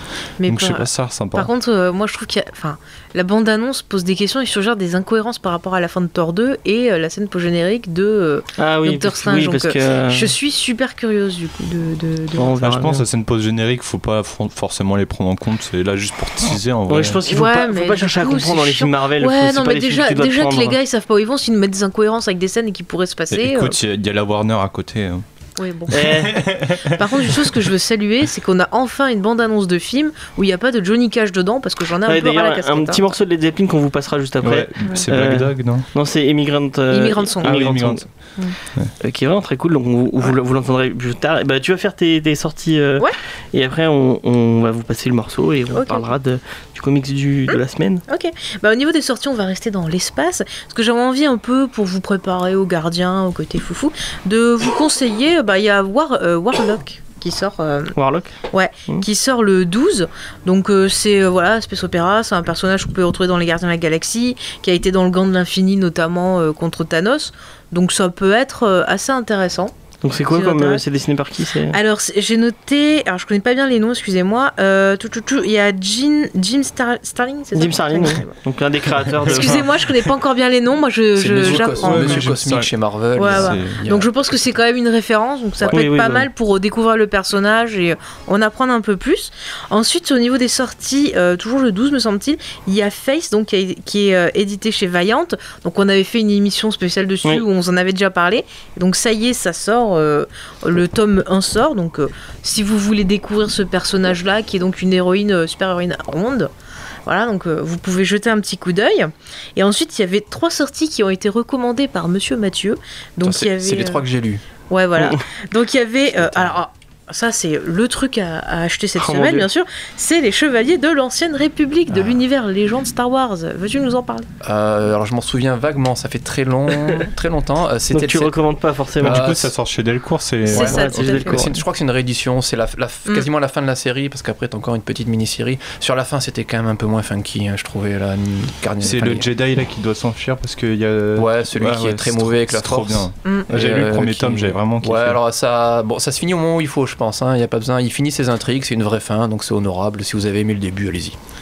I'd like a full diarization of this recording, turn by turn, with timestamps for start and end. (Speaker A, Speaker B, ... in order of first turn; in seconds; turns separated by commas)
Speaker A: 0.4-12.6, Speaker B: 0.5-1.5, Speaker C: 8.6-10.3, Speaker C: 12.3-13.1, Speaker B: 12.6-17.2, Speaker C: 16.9-20.8, Speaker A: 17.2-23.8, Speaker B: 23.3-25.2, Speaker A: 25.6-33.0, Speaker B: 25.9-27.6, Speaker C: 25.9-26.4, Speaker C: 32.0-38.0, Speaker B: 34.4-35.9, Speaker A: 36.9-37.6, Speaker B: 37.4-38.1, Speaker C: 39.0-48.0, Speaker A: 45.7-46.1, Speaker A: 47.5-58.0, Speaker C: 58.0-58.3, Speaker A: 58.5-69.7, Speaker C: 70.0-71.8, Speaker A: 70.3-70.8, Speaker A: 71.7-78.3, Speaker C: 77.5-79.8, Speaker A: 79.2-82.3, Speaker D: 81.1-84.1, Speaker B: 81.6-82.7, Speaker A: 83.2-106.5, Speaker B: 83.2-83.8, Speaker C: 85.7-86.3, Speaker A: 107.0-114.0, Speaker D: 113.2-114.4, Speaker A: 114.7-124.3, Speaker D: 116.2-116.6, Speaker C: 119.0-119.5, Speaker D: 121.9-122.2, Speaker D: 124.4-128.3, Speaker C: 127.9-129.3, Speaker B: 129.0-131.5, Speaker D: 129.0-129.5, Speaker A: 130.5-131.5, Speaker D: 130.5-139.3, Speaker C: 130.7-131.3, Speaker B: 138.8-145.2, Speaker D: 141.2-151.2